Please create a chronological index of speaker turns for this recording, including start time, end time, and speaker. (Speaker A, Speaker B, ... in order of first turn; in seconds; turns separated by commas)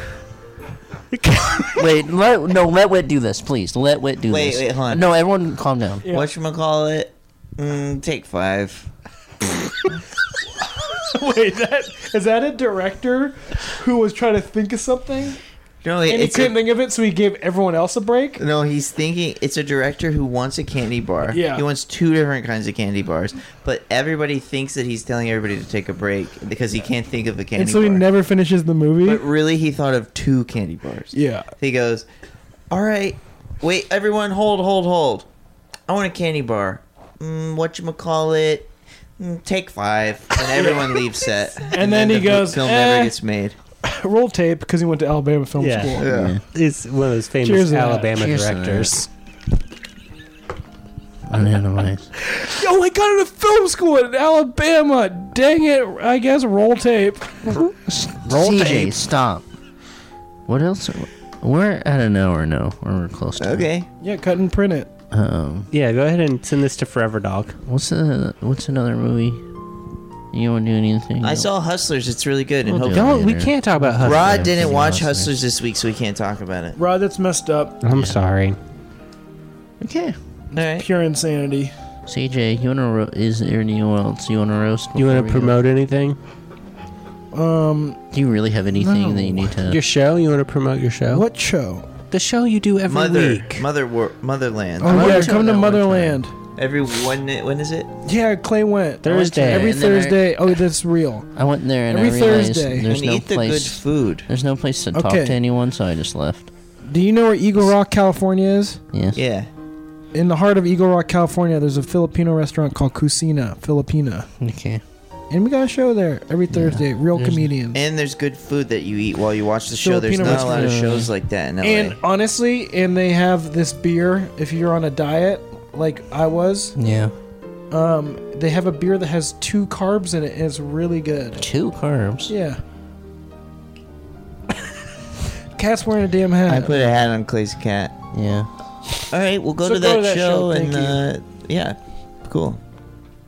Speaker A: 1.2-1.7, Speaker B: 1.8-6.1, Speaker C: 4.3-5.0, Speaker D: 6.0-6.3, Speaker C: 6.1-8.9, Speaker D: 11.1-15.4, Speaker C: 15.8-16.5, Speaker D: 16.1-18.4, Speaker C: 18.4-28.0, Speaker D: 21.3-21.6, Speaker D: 27.6-29.2, Speaker C: 29.0-32.1, Speaker D: 31.1-31.5, Speaker C: 32.7-35.3, Speaker C: 35.9-43.6, Speaker D: 41.7-43.2, Speaker D: 43.8-46.0, Speaker A: 45.6-49.1, Speaker C: 46.0-46.4, Speaker B: 46.0-46.4, Speaker D: 47.4-48.1, Speaker B: 48.1-49.0, Speaker B: 51.3-52.1, Speaker D: 52.3-57.5, Speaker B: 57.5-59.5, Speaker D: 58.3-58.9, Speaker B: 60.5-63.7, Speaker C: 63.4-63.9, Speaker D: 64.0-64.9, Speaker B: 65.1-65.7, Speaker A: 65.7-67.6, Speaker B: 67.7-69.4, Speaker B: 70.3-71.5, Speaker C: 71.2-73.1, Speaker A: 72.7-74.5, Speaker B: 72.8-75.3, Speaker C: 74.0-76.8, Speaker D: 76.8-77.8, Speaker A: 77.8-78.6, Speaker B: 77.9-78.2, Speaker B: 79.8-80.2, Speaker D: 80.5-81.7, Speaker C: 80.5-80.9, Speaker B: 82.1-85.6, Speaker A: 85.0-86.2, Speaker D: 87.3-88.0, Speaker B: 88.1-89.8, Speaker D: 88.8-89.5, Speaker A: 89.6-91.2, Speaker D: 91.1-91.9, Speaker A: 92.1-93.7, Speaker C: 92.9-95.3, Speaker D: 94.8-96.3, Speaker B: 94.8-96.2, Speaker C: 96.6-97.9, Speaker D: 98.0-101.3, Speaker A: 99.0-99.8, Speaker B: 99.3-100.5, Speaker B: 101.3-106.5, Speaker D: 101.9-102.9, Speaker C: 102.9-104.3, Speaker D: 104.9-105.4, Speaker D: 106.9-108.8, Speaker B: 108.9-109.2, Speaker C: 109.1-109.5, Speaker D: 110.1-114.3, Speaker B: 114.4-114.8, Speaker D: 115.3-117.8, Speaker B: 116.5-117.5, Speaker C: 117.7-122.0, Speaker D: 119.8-120.7, Speaker B: 120.2-121.1, Speaker D: 121.6-126.8, Speaker B: 126.8-127.1, Speaker D: 127.7-131.4, Speaker B: 131.4-132.3, Speaker D: 132.3-132.6, Speaker D: 135.6-136.9, Speaker C: 136.5-137.9, Speaker B: 138.1-138.5, Speaker C: 139.1-142.6, Speaker D: 139.6-141.0